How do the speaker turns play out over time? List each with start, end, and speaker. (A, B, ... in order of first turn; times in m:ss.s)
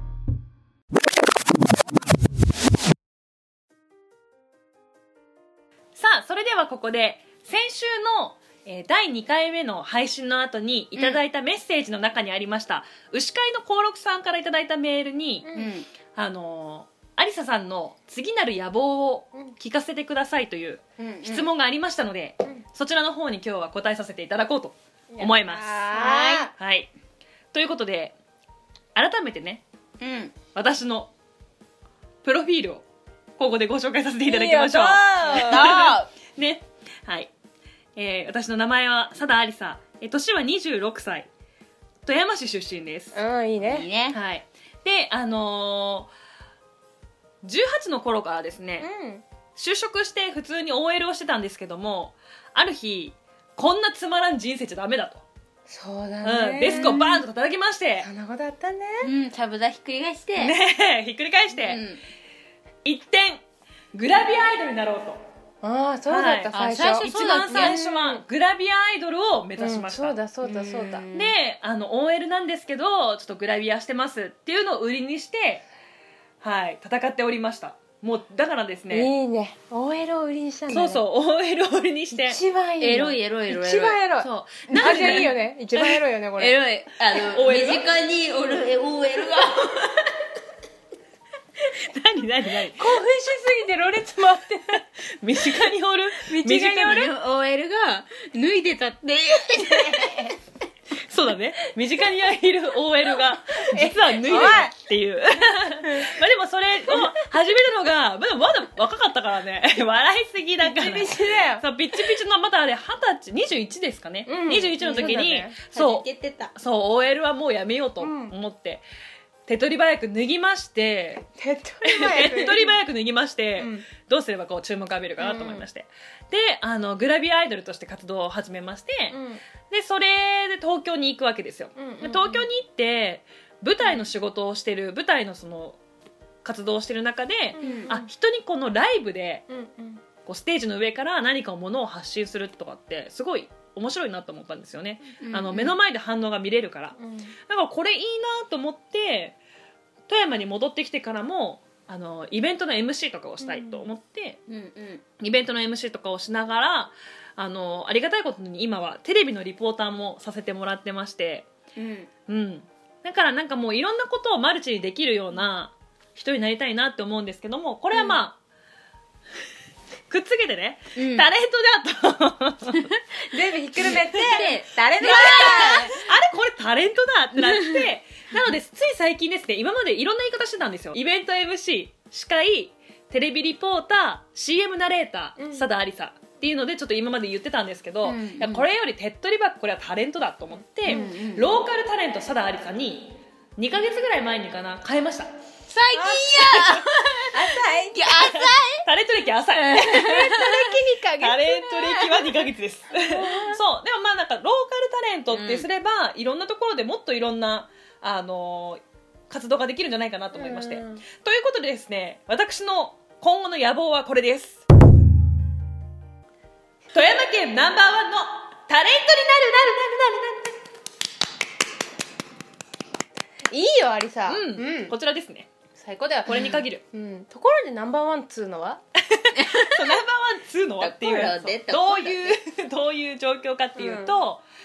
0:05.9-0:15.5 A
0:15.4-0:15.7 B
0:15.5-0:15.9 C
0:16.1-0:25.8 A
0:21.0-0:21.5 C
0:25.1-0:26.5 B
0:25.8-0:26.5 C
0:26.6-0:26.9 A
0:27.5-0:28.2 A
0:28.9-0:29.6 A
0:30.0-0:30.4 C
0:30.5-0:31.1 A
0:32.2-0:32.8 A
0:33.4-0:37.3 A
0:34.2-0:35.7 B
0:34.7-0:36.1 C
0:38.0-0:41.3 A
0:42.0-0:43.2 A
0:43.1-0:43.9 B
0:43.6-0:44.2 C
0:44.1-0:46.1 A
0:47.4-0:48.8 A
0:48.8-0:49.2 B
0:49.5-0:55.2 A
0:55.7-0:57.2 B
0:56.2-0:58.1 A
0:58.0-0:59.1 B
0:59.0-1:00.5 C
1:00.4-1:01.8 A
1:01.5-1:02.0 C
1:02.8-1:05.2 A
1:05.6-1:08.2 B
1:06.1-1:10.2 A
1:06.5-1:07.7 C
1:09.6-1:11.2 B
1:10.4-1:11.3 C
1:11.1-1:15.6 A
1:16.4-1:19.1 A
1:18.9-1:21.0 B
1:20.7-1:22.4 A
1:22.1-1:26.6 B
1:22.8-1:24.0 C
1:24.1-1:25.9 A
1:24.8-1:25.2 C
1:26.4-1:30.0 C
1:27.1-1:27.9 A
1:31.7-1:32.9 A
1:32.8-1:34.8 B
1:35.2-1:37.1 A
1:36.2-1:37.1 B
1:36.9-1:40.4 C
1:39.8-1:40.1 B
1:41.0-1:58.8 A
1:43.7-1:44.7 B
1:45.8-1:46.2 B
1:50.6-1:51.6 B
1:54.2-1:55.6 B
1:55.7-1:56.5 C
1:58.0-1:58.3 B
1:59.4-2:01.2 A
2:01.4-2:02.7 B
2:01.8-2:15.8 A
2:03.6-2:03.9 B
2:05.2-2:05.7 B
2:09.1-2:09.4 B
2:11.8-2:12.5 B
2:16.4-2:19.4 A
2:17.5-2:18.1 B
2:17.6-2:17.9 C
2:19.5-2:20.0 B
2:20.2-2:27.0 A
2:25.2-2:25.8 C
2:27.0-2:27.3 B
2:27.5-2:29.4 A
2:30.1-2:34.4 A
2:33.4-2:33.8 B
2:34.5-2:35.0 C
2:35.2-2:41.5 A
2:41.8-2:42.1 C
2:42.3-2:48.4 A
2:47.9-2:48.2 C
2:50.1-2:52.9 A
2:51.0-2:51.3 C
2:53.3-2:55.9 B
2:54.1-2:56.0 C
2:55.0-3:15.3 A
3:05.4-3:05.6 B
3:08.0-3:08.7 C
3:10.8-3:11.3 B
3:10.8-3:11.5 C
3:15.7-3:18.8 C
3:15.9-3:16.4 B
3:16.4-3:16.8 A
3:17.2-3:18.1 B
3:18.1-3:20.6 A
3:19.5-3:20.7 C
3:19.9-3:21.6 B
3:21.2-3:34.6 A
3:21.7-3:22.3 C
3:23.0-3:23.6 B
3:25.3-3:25.6 C
3:30.3-3:31.0 B
3:36.9-3:40.6 A
3:43.5-3:44.9 B
3:44.3-3:45.5 A
3:45.8-3:48.8 B
3:46.2-3:46.8 A
3:49.1-3:54.4 A
3:49.3-3:49.9 C
3:50.8-3:52.4 C
3:53.8-3:54.2 B